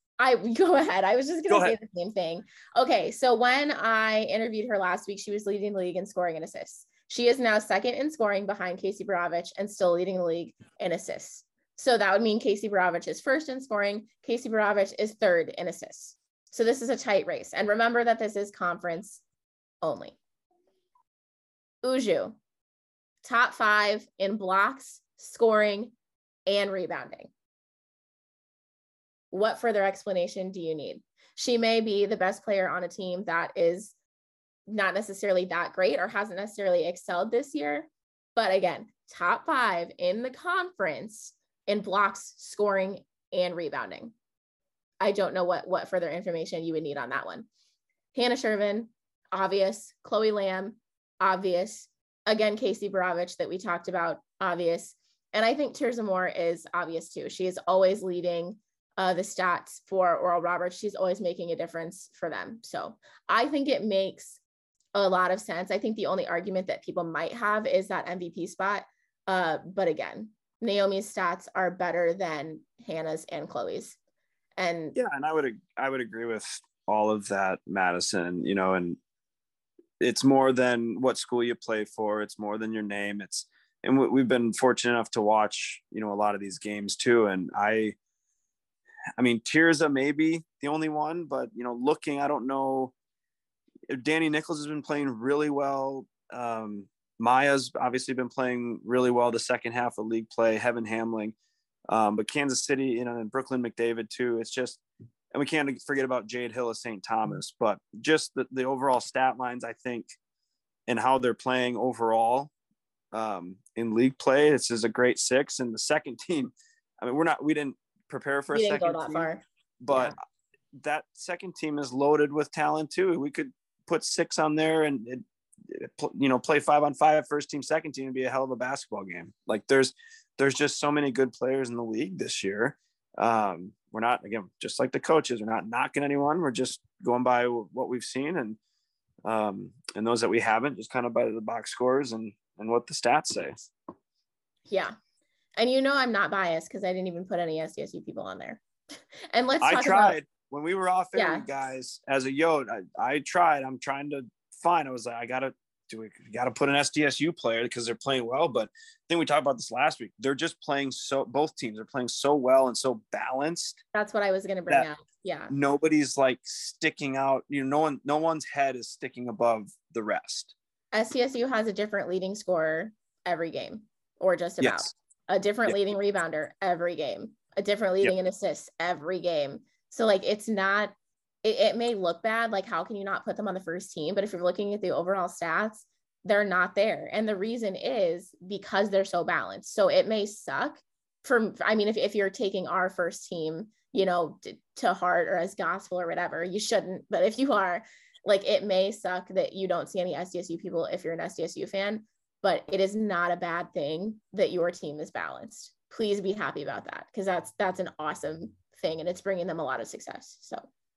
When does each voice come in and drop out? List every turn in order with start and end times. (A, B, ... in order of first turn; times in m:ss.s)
0:00.2-0:19.2 A
0:01.5-0:01.8 B
0:19.8-0:20.2 A
0:21.8-0:22.4 A
0:23.2-0:25.9 A
0:26.5-0:27.3 A
0:29.3-0:33.9 A
0:34.7-0:44.1 A
0:45.0-0:47.5 A
0:48.1-1:04.4 A
1:04.9-1:14.0 A
1:14.6-1:15.0 A
1:14.9-1:19.0 B
1:20.0-1:28.0 B
1:29.2-1:32.9 B
1:33.9-1:41.3 B
1:41.9-1:44.8 B
1:45.3-1:50.1 B
1:50.9-1:52.5 B
1:53.1-1:59.3 B
1:58.5-2:00.1 A
1:59.8-2:00.1 B
2:00.7-2:18.6 B
2:19.2-2:23.6 B
2:24.7-2:25.0 A
2:25.6-2:28.6 A
2:29.3-2:30.2 A
2:29.6-2:43.8 B
2:31.1-2:31.4 A
2:43.9-2:45.5 A
2:45.5-2:50.5 B
2:50.9-3:30.7 A
2:54.6-2:54.9 B